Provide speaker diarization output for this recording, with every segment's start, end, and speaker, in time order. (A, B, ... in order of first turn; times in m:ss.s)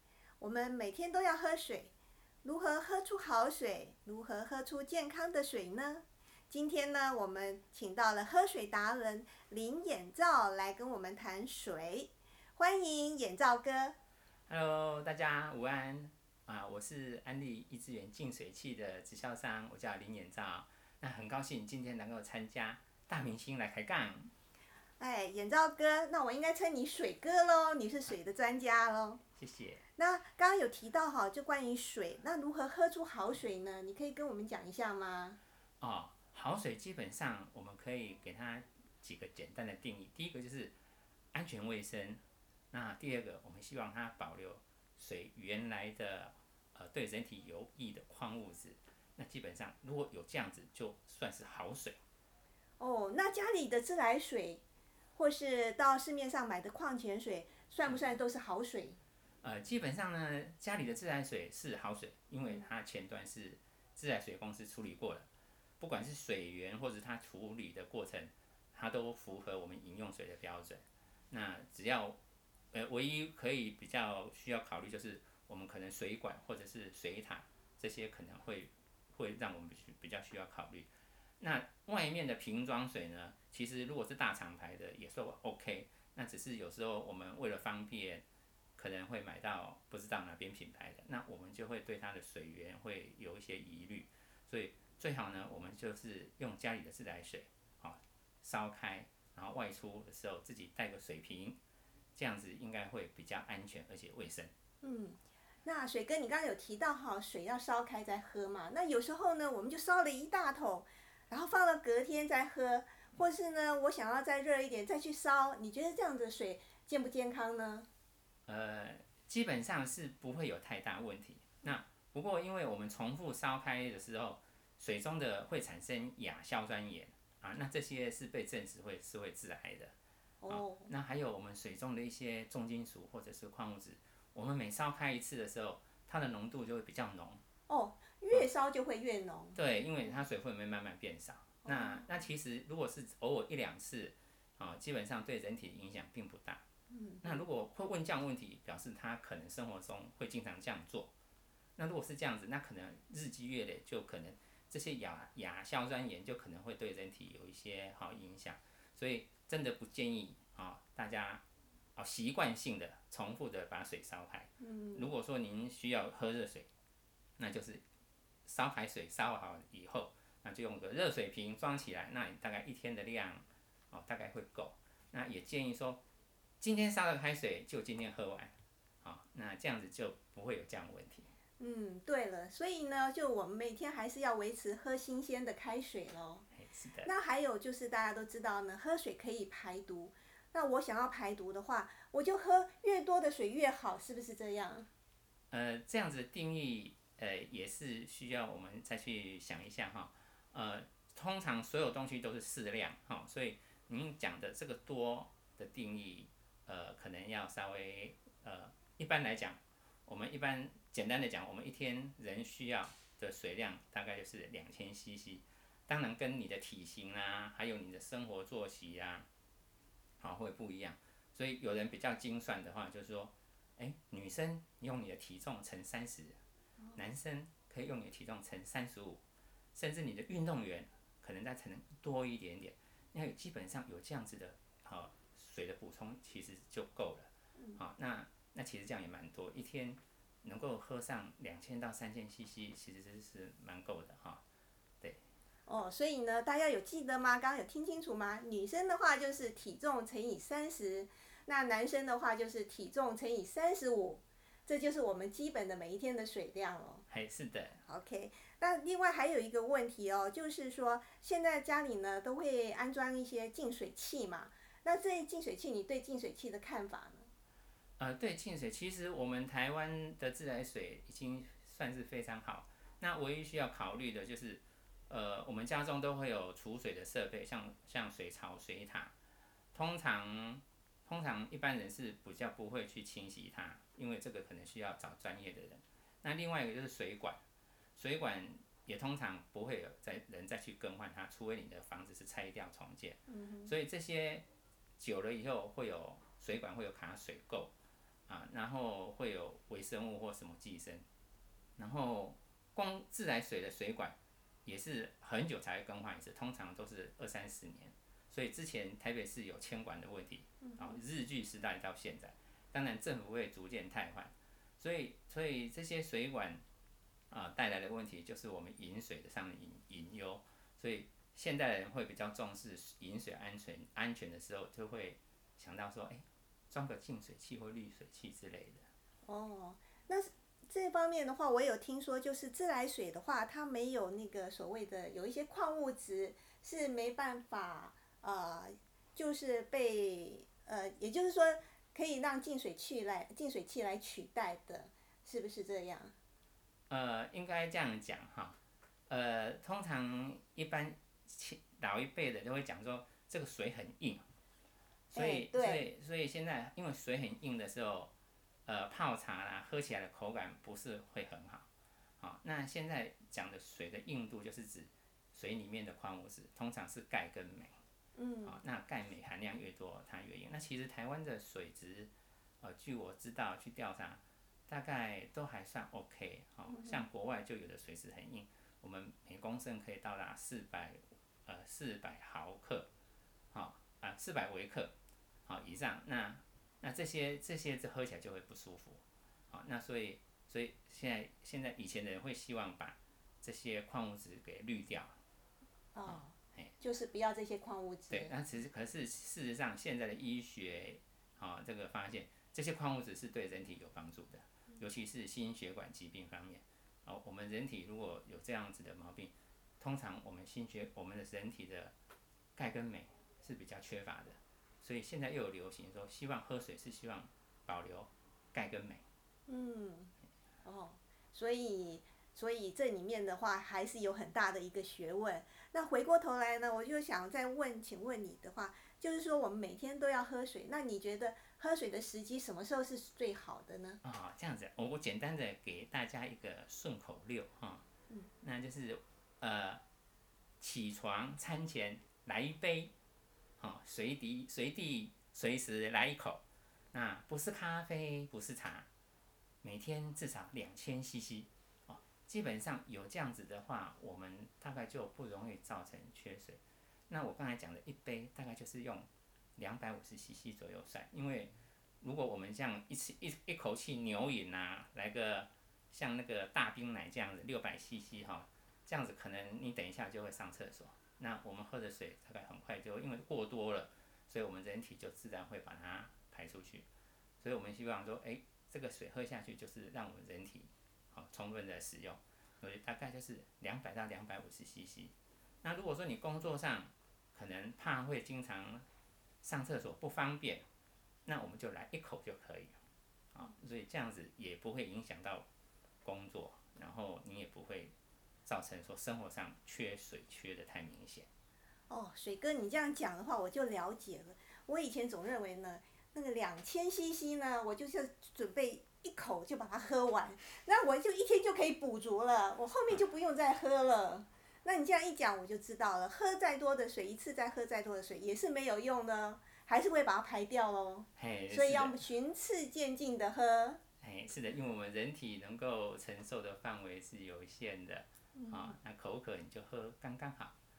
0:00.4-0:01.9 A
0:02.4-0:14.0 A
0:14.5-0:24.3 B
0:25.0-0:29.2 A
0:29.4-0:29.8 B
0:30.0-0:35.4 A
0:35.8-0:40.7 B
0:41.3-0:42.2 B
0:42.7-0:52.0 B
0:52.8-0:54.6 A
0:55.2-0:59.0 A
0:59.4-1:05.3 B
1:05.8-1:12.2 B
1:12.7-1:20.9 B
1:21.4-1:28.2 B
1:28.8-1:41.6 B
1:42.2-1:44.5 B
1:44.8-1:57.9 A
1:58.5-2:09.9 B
2:10.4-2:10.9 A
2:10.5-2:17.4 B
2:17.7-2:19.6 A
2:19.5-2:26.6 B
2:21.7-2:22.0 A
2:26.9-2:27.4 A
2:27.2-2:31.1 B
2:31.8-2:41.4 B
2:42.0-2:46.7 B
2:44.6-2:45.1 A
2:47.4-2:47.8 B
2:48.5-2:56.0 B
2:56.6-3:01.3 B
3:01.6-3:06.4 A
3:06.6-3:07.1 B
3:07.0-3:14.9 A
3:15.5-3:39.3 B
3:40.2-3:46.4 B
3:46.9-3:49.2 B
3:49.8-4:04.4 B
4:05.7-4:17.0 A
4:17.1-4:17.8 B
4:17.8-4:27.3 A
4:28.0-4:39.1 B
4:39.7-4:47.4 B
4:48.0-4:54.4 B
4:53.3-4:53.7 A
4:55.0-4:57.7 B
4:58.3-5:01.0 B
5:01.8-5:16.6 B
5:10.6-5:11.0 A
5:17.3-5:28.9 B
5:29.2-5:46.1 A
5:46.9-5:48.6 B
5:49.1-5:54.3 B
5:55.1-5:55.8 A
5:55.1-5:58.1 B
5:58.6-6:01.7 B
6:02.2-6:07.8 B
6:08.2-6:08.6 A
6:08.4-6:12.1 B
6:12.6-6:22.9 B
6:16.7-6:17.0 A
6:23.5-6:24.9 B
6:25.5-6:35.2 B
6:35.9-6:38.3 A
6:36.1-6:36.7 B
6:38.1-6:51.9 B
6:52.6-6:59.0 B
6:59.5-7:00.1 A
7:00.6-7:14.0 A
7:14.0-7:17.8 B
7:18.4-7:19.8 B
7:20.6-7:22.9 B
7:23.6-7:26.4 B
7:26.9-7:28.9 B
7:29.6-7:56.9 B
7:57.4-8:08.8 B
8:09.4-8:10.6 B
8:11.3-8:12.8 B
8:13.3-8:15.5 B
8:16.0-8:17.9 B
8:18.4-8:21.3 B
8:21.9-8:43.8 A
8:41.2-8:42.0 B
8:44.0-8:50.6 B
8:48.4-8:48.8 A